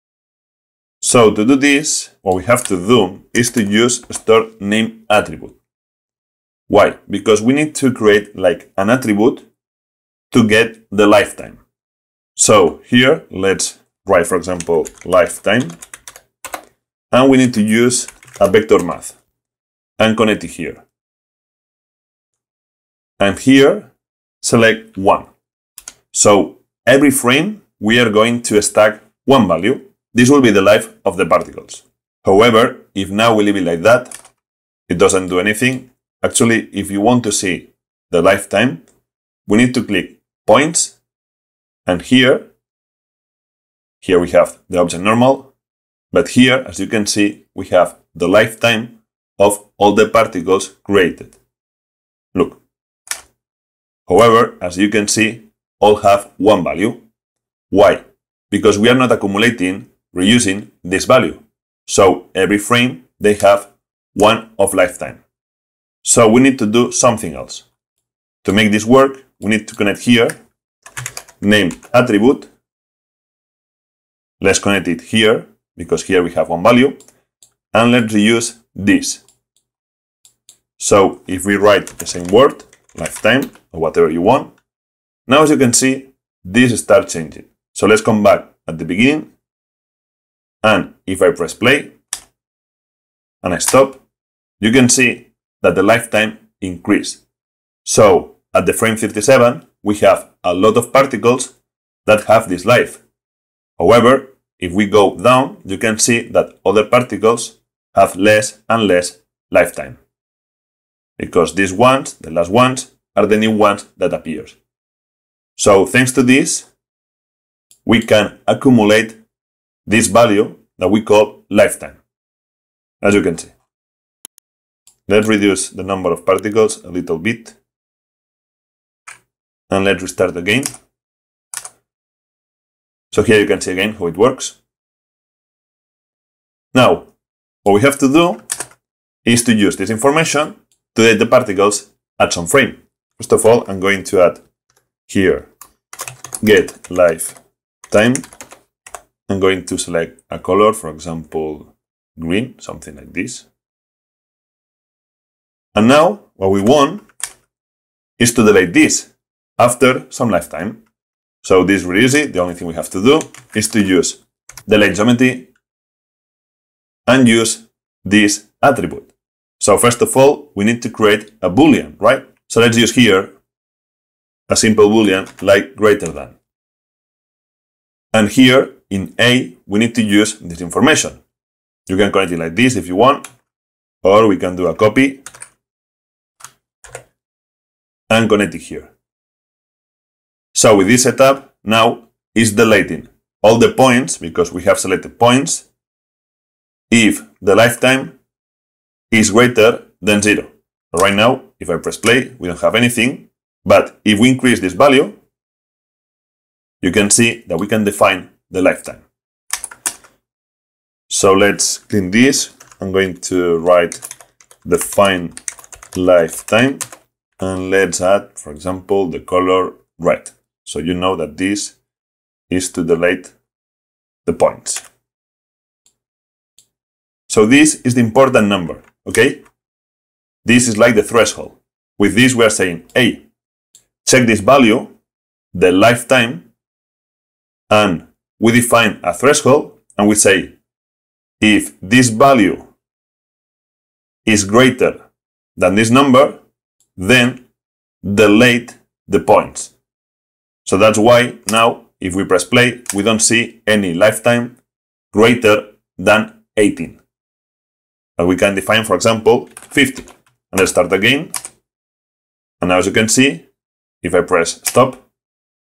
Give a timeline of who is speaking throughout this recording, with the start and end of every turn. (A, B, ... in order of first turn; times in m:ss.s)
0:01.0-0:05.6 A
0:06.7-0:09.5 A
0:10.3-0:11.6 A
0:12.4-0:15.8 A
0:17.1-0:19.2 A
0:20.0-0:20.8 A
0:23.2-0:25.2 A
0:26.1-0:34.1 A
0:34.9-0:38.8 A
0:39.5-0:41.0 A
0:41.8-0:42.5 A
0:44.0-0:45.5 A
0:46.1-0:51.4 A
0:52.3-0:52.6 A
0:54.1-0:57.0 A
0:57.7-1:05.2 A
1:06.0-1:07.7 A
1:08.4-1:10.3 A
1:11.4-1:12.5 A
1:14.4-1:17.0 A
1:17.7-1:19.2 A
1:20.8-1:24.5 A
1:25.3-1:29.3 A
1:30.6-1:31.9 A
1:33.4-1:34.0 A
1:34.6-1:37.2 A
1:37.8-1:41.5 A
1:42.0-1:43.0 A
1:43.8-1:50.0 A
1:51.2-1:54.6 A
1:55.6-1:56.7 A
1:57.8-1:59.2 A
1:59.8-2:02.0 A
2:03.0-2:03.5 A
2:05.1-2:07.6 A
2:09.7-2:10.7 A
2:13.1-2:14.6 A
2:16.7-2:17.1 A
2:17.6-2:18.4 A
2:19.2-2:24.4 A
2:25.1-2:25.5 A
2:26.4-2:27.4 A
2:27.9-2:28.2 A
2:29.3-2:33.5 A
2:35.7-2:37.0 A
2:38.2-2:40.8 A
2:41.4-2:45.5 A
2:47.1-2:53.3 A
2:54.5-2:56.4 A
2:58.1-3:01.2 A
3:01.9-3:03.2 A
3:04.0-3:05.2 A
3:08.1-3:08.9 A
3:10.5-3:15.6 A
3:16.9-3:18.2 A
3:19.1-3:25.1 A
3:26.8-3:29.0 A
3:31.1-3:34.0 A
3:34.6-3:35.4 A
3:35.9-3:36.8 A
3:37.4-3:41.8 A
3:42.5-3:43.3 A
3:44.2-3:44.8 A
3:47.3-3:49.4 A
3:50.4-3:53.2 A
3:54.0-3:54.9 A
3:55.5-3:56.5 A
3:57.7-4:00.5 A
4:01.4-4:02.7 A
4:04.2-4:05.0 A
4:05.6-4:06.4 A
4:07.0-4:07.4 A
4:08.0-4:09.7 A
4:10.6-4:14.6 A
4:15.1-4:17.0 A
4:18.2-4:21.3 A
4:22.6-4:23.5 A
4:24.0-4:25.0 A